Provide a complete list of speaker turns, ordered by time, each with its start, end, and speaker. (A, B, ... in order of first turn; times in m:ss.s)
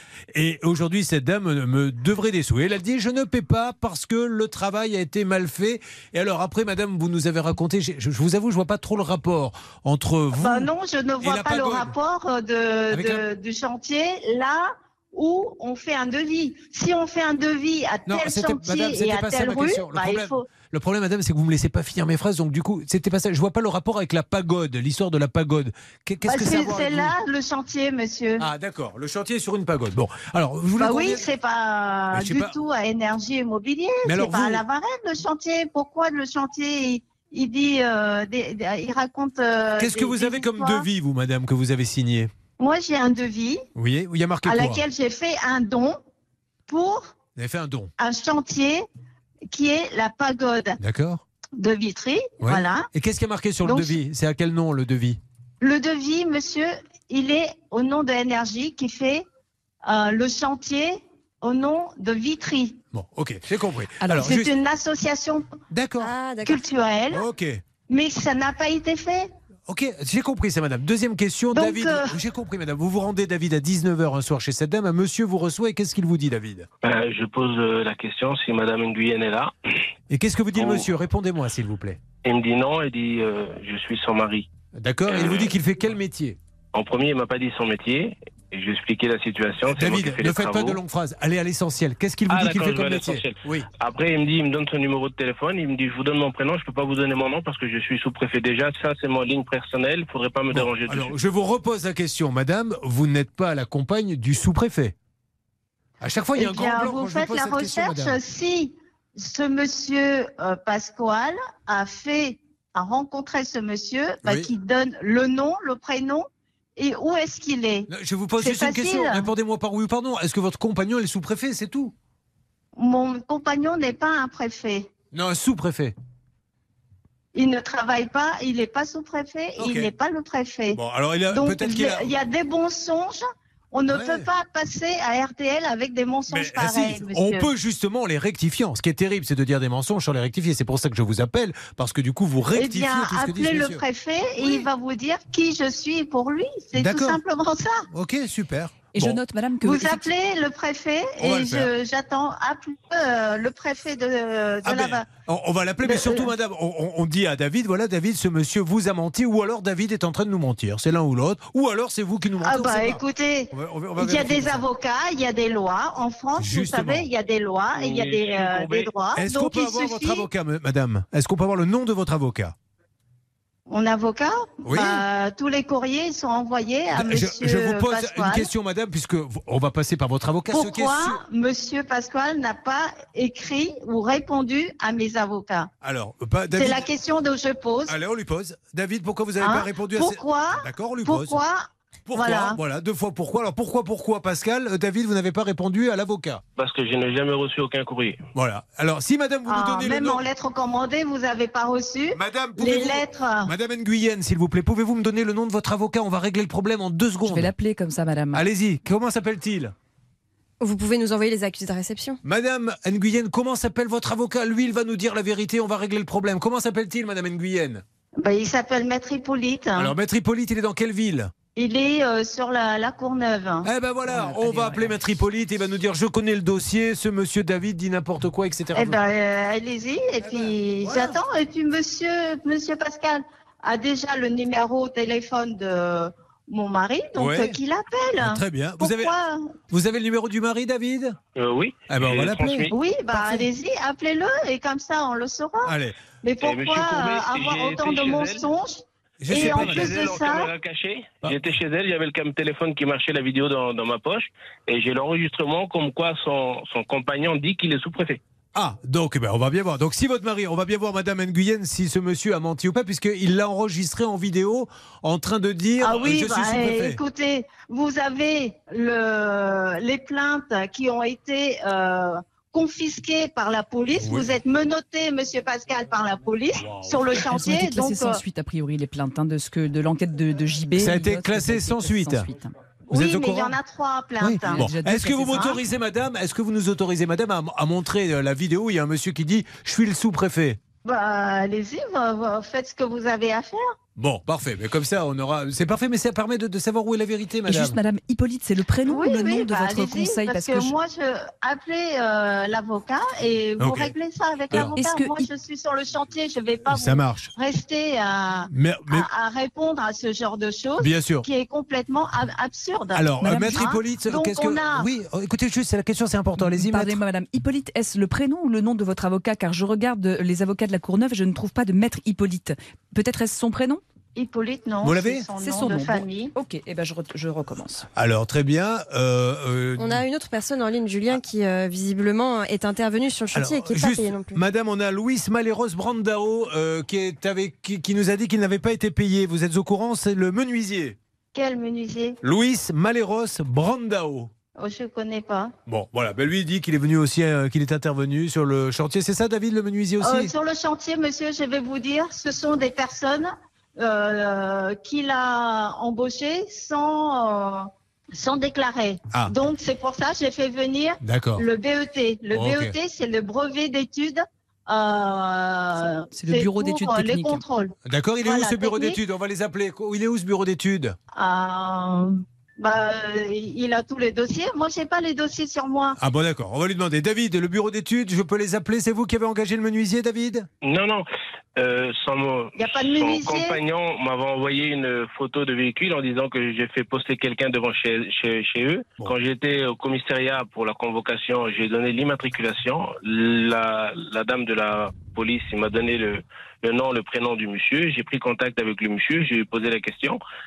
0:00.3-0:10.7 A
0:10.4-0:20.4 B
0:11.2-0:11.9 A
0:12.9-0:13.2 A
0:18.1-0:27.1 A
0:26.3-0:28.4 B
0:28.4-0:31.3 A
0:30.8-0:40.8 B
0:32.1-0:32.6 A
0:34.0-0:34.6 A
0:39.8-0:42.3 A
0:42.6-0:43.6 B
0:43.8-0:44.8 A
0:44.4-0:46.0 B
0:46.7-0:47.1 B
0:47.4-0:47.9 A
0:48.0-0:48.8 B
0:49.5-0:50.8 B
0:50.8-0:51.2 A
0:51.6-0:52.9 B
0:52.4-0:55.2 A
0:53.6-0:54.0 B
0:55.6-0:59.2 B
0:59.8-1:02.8 B
1:02.9-1:04.5 A
1:04.0-1:04.3 C
1:04.2-1:05.5 B
1:05.7-1:06.1 A
1:06.0-1:06.7 D
1:06.4-1:07.2 B
1:07.1-1:07.6 A
1:07.9-1:09.3 B
1:09.7-1:16.7 A
1:11.5-1:12.1 B
1:16.8-1:19.5 E
1:20.1-1:22.0 A
1:20.6-1:20.9 E
1:22.2-1:24.5 E
1:24.8-1:26.4 A
1:25.1-1:25.5 E
1:26.7-1:30.8 E
1:29.7-1:33.7 A
1:32.3-1:41.1 E
1:40.5-1:45.0 A
1:46.0-1:48.2 A
1:46.4-1:57.9 B
1:54.2-1:54.5 A
1:57.9-2:01.9 A
1:58.4-1:59.2 B
2:02.8-2:04.9 B
2:05.1-2:06.0 A
2:07.4-2:10.8 B
2:09.6-2:09.9 A
2:10.7-2:12.2 A
2:11.3-2:17.5 B
2:13.9-2:14.3 A
2:16.3-2:23.8 A
2:22.5-2:27.9 B
2:24.4-2:24.7 A
2:26.8-2:27.2 A
2:27.9-2:29.2 A
2:28.9-2:30.1 C
2:29.6-2:35.0 B
2:31.2-2:31.7 A
2:34.6-2:44.6 A
2:35.8-2:36.3 B
2:42.4-2:50.2 B
2:46.4-2:47.1 A
2:47.8-2:52.5 A
2:53.7-2:58.5 B
2:54.6-2:55.0 A
2:56.9-3:01.2 A
3:00.5-3:05.7 B
3:05.8-3:06.9 A
3:06.6-3:08.0 B
3:07.9-3:11.4 A
3:09.4-3:12.6 B
3:12.1-3:16.4 A
3:16.6-3:18.2 E
3:18.4-3:20.2 A
3:19.5-3:23.5 B
3:22.1-3:27.5 A
3:27.2-3:28.4 C
3:28.3-3:29.7 A
3:30.6-3:32.2 D
3:32.2-3:37.8 A
3:38.2-3:39.9 B
3:39.8-3:41.3 A
3:41.6-3:43.7 B
3:43.6-3:49.0 A
3:44.1-3:45.0 C
3:48.8-3:59.5 B
3:50.8-3:51.2 A
3:57.2-3:57.6 A
3:58.2-3:59.1 A
3:59.7-4:01.2 A
4:01.4-4:02.8 E
4:01.9-4:02.6 A
4:02.7-4:10.5 B
4:05.6-4:06.0 A
4:06.4-4:08.4 E
4:09.2-4:10.0 A
4:09.3-4:18.2 E
4:11.2-4:11.5 A
4:18.6-4:27.0 A
4:25.8-4:38.2 B
4:34.0-4:34.3 A
4:36.6-4:37.1 A
4:37.3-4:42.5 C
4:40.8-4:42.3 A
4:42.9-4:43.6 A
4:42.9-4:44.7 B
4:44.2-4:50.6 A
4:44.4-4:45.6 C
4:50.8-4:53.8 B
4:54.0-4:57.8 A
4:57.5-5:00.7 C
4:58.9-5:14.9 B
5:03.6-5:03.9 A
5:04.6-5:05.3 C
5:06.7-5:07.3 A
5:08.5-5:09.1 A
5:10.8-5:11.3 A
5:12.9-5:17.0 A
5:13.2-5:13.7 C
5:16.4-5:23.8 C
5:24.2-5:26.3 B
5:24.8-5:25.3 A
5:25.4-5:27.9 C
5:28.0-5:30.0 A
5:29.8-5:34.4 D
5:33.3-5:41.0 A
5:41.3-5:42.2 B
5:42.2-5:44.3 A
5:44.6-5:45.5 B
5:45.7-5:50.3 A
5:50.0-6:09.0 B
6:01.0-6:01.4 A
6:02.3-6:02.7 A
6:06.2-6:07.4 C
6:07.9-6:11.0 A
6:11.2-6:16.0 B
6:16.0-6:20.5 A
6:20.6-6:21.1 E
6:21.6-6:40.2 E
6:22.6-6:23.6 B